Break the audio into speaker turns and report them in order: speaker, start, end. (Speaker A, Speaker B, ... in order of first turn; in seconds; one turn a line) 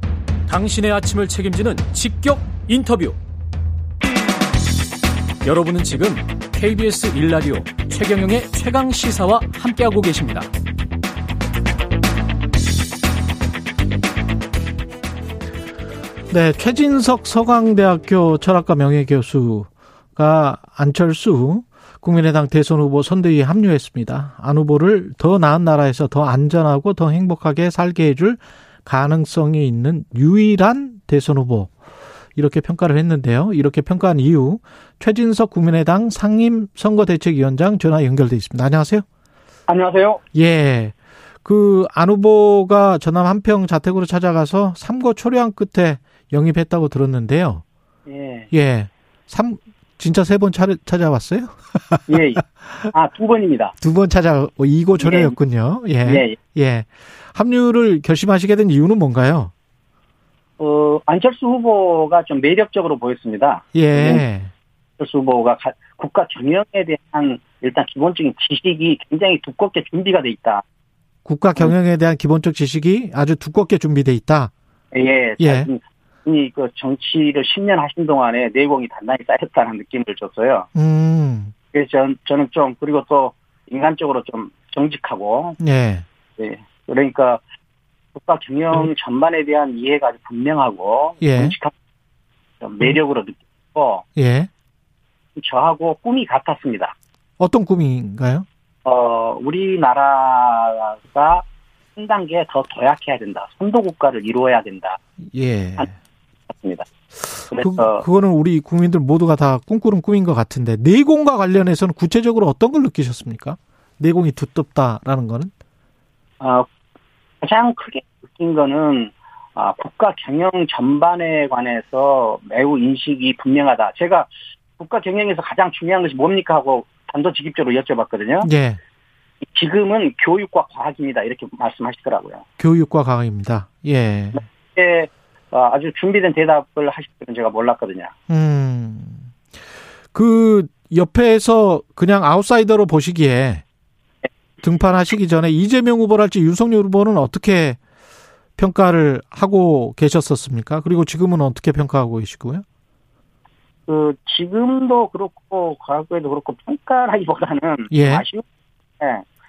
Speaker A: 0.5-3.2
Speaker A: 5.4-10.5
Speaker B: 16.3-31.7
Speaker B: 32.4-39.0
Speaker C: 39.7-40.2
Speaker B: 40.3-47.6
Speaker C: 48.0-48.5
Speaker B: 48.5-52.0
Speaker C: 52.1-53.7
Speaker B: 53.8-59.5
Speaker C: 55.0-55.4
Speaker C: 56.0-56.4
Speaker C: 60.6-64.2
Speaker B: 63.7-64.5
Speaker C: 65.0-70.6
Speaker B: 71.2-74.5
Speaker C: 74.9-80.7
Speaker B: 75.4-75.7
Speaker B: 80.7-81.5
Speaker C: 81.7-85.6
Speaker B: 85.6-86.0
Speaker C: 86.4-87.4
Speaker C: 88.1-91.7
Speaker B: 91.2-91.5
Speaker C: 92.6-94.0
Speaker B: 94.2-94.5
Speaker C: 95.3-96.9
Speaker B: 97.4-98.5
Speaker C: 98.8-105.0
Speaker B: 105.3-105.9
Speaker C: 106.5-106.9
Speaker C: 107.5-108.0
Speaker B: 107.5-115.5
Speaker C: 116.4-116.7
Speaker C: 117.4-128.5
Speaker B: 128.4-128.8
Speaker C: 129.5-132.4
Speaker B: 132.6-134.4
Speaker C: 134.3-138.1
Speaker B: 138.3-139.2
Speaker B: 140.1-143.6
Speaker B: 144.6-147.8
Speaker B: 148.6-152.6
Speaker C: 153.9-158.4
Speaker B: 157.9-158.2
Speaker C: 159.0-159.3